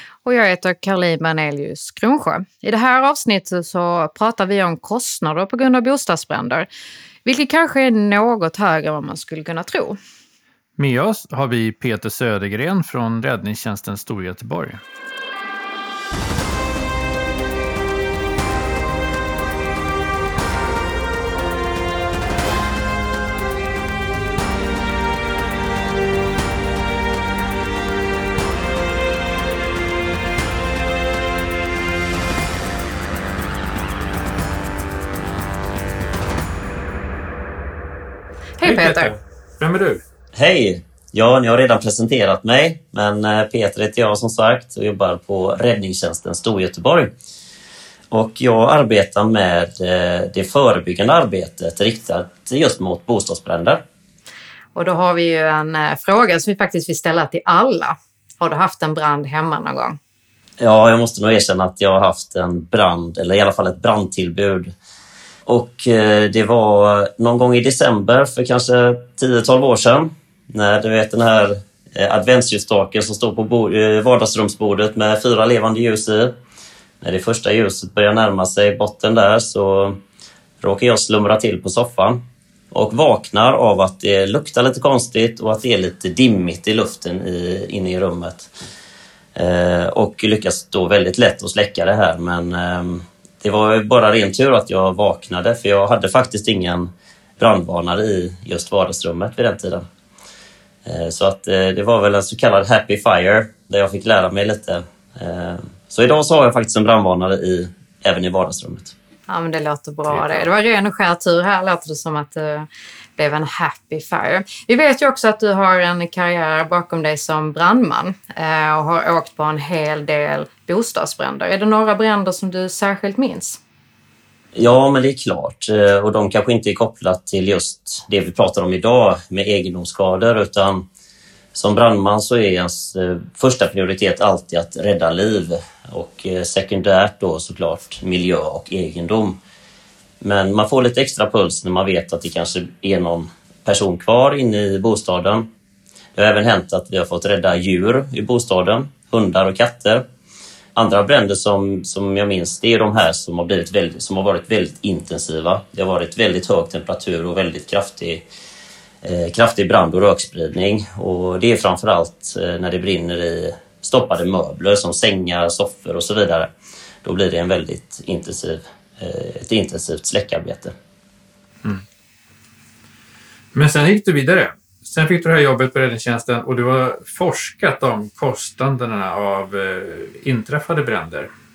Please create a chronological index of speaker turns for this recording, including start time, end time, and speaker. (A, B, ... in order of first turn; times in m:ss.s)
0:00.2-0:06.7 A
0:07.2-0:10.0 A
0:10.8-0:14.8 B
0:38.6-0:39.1 A
0:38.6-0:40.0 B
0:40.4-0:47.1 C
0:48.1-0:53.8 C
0:54.7-1:00.0 A
1:00.6-1:04.8 C
1:05.5-1:16.4 C
1:17.0-1:20.0 C
1:20.6-1:22.2 C
1:22.7-1:28.5 C
1:29.4-1:39.8 C
1:40.8-1:48.9 C
1:49.3-2:03.6 A
1:50.1-1:50.5 C
2:04.6-2:10.8 C
2:11.5-2:19.4 C
2:20.2-2:25.5 C
2:26.2-2:30.0 C
2:30.8-2:38.2 C
2:39.0-2:46.5 C
2:47.0-2:50.7 C
2:53.5-3:01.3 B